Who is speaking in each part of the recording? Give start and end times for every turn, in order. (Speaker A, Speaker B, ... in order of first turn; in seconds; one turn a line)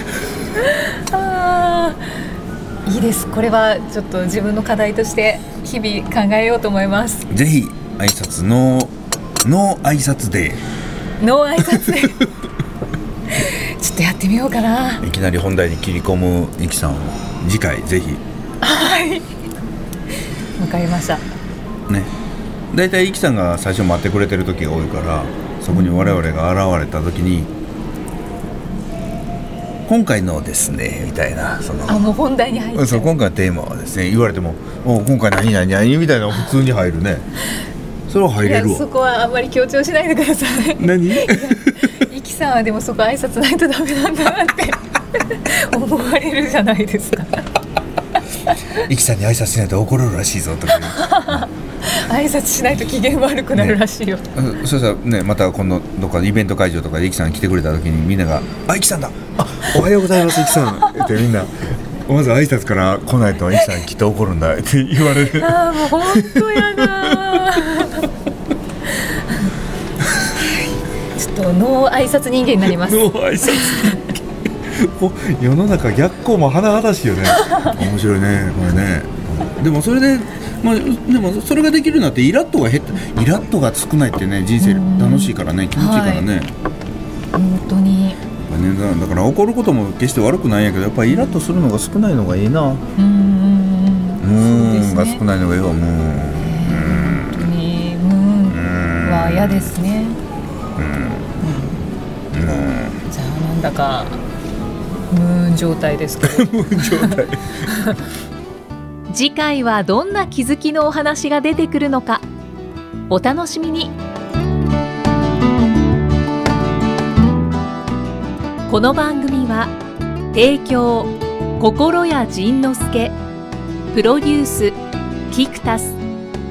Speaker A: 0.6-2.0
Speaker A: 2.9-7.3
Speaker B: 7.3-10.6
Speaker A: 11.2-12.2
Speaker A: 13.3-15.0
Speaker B: 15.0-18.2
Speaker A: 18.6-19.3
Speaker A: 20.6-21.2
Speaker B: 22.7-27.5
Speaker A: 25.7-26.2
Speaker B: 29.9-32.1
Speaker A: 31.9-33.1
Speaker B: 32.7-37.2
Speaker B: 38.1-38.9
Speaker A: 38.4-47.4
Speaker B: 40.8-42.1
Speaker B: 48.8-51.5
Speaker A: 50.7-54.2
Speaker B: 53.5-53.8
Speaker B: 54.3-67.9
Speaker A: 65.2-68.0
Speaker A: 69.0-69.5
Speaker A: 70.3-70.6
Speaker A: 71.1-73.9
Speaker B: 72.6-86.5
Speaker A: 84.6-86.3
Speaker A: 87.3-88.2
Speaker B: 88.5-92.8
Speaker A: 93.0-95.2
Speaker B: 94.2-97.5
Speaker A: 96.3-100.2
Speaker B: 98.5-99.7
Speaker B: 100.8-101.4
Speaker A: 101.4-101.8
Speaker B: 102.3-103.0
Speaker A: 103.1-104.2
Speaker A: 105.1-108.0
Speaker B: 106.2-108.0
Speaker C: 109.1-112.2
Speaker C: 113.1-113.9
Speaker C: 118.7-119.7
Speaker C: 120.3-123.2
Speaker C: 123.9-124.8
Speaker C: 125.3-126.0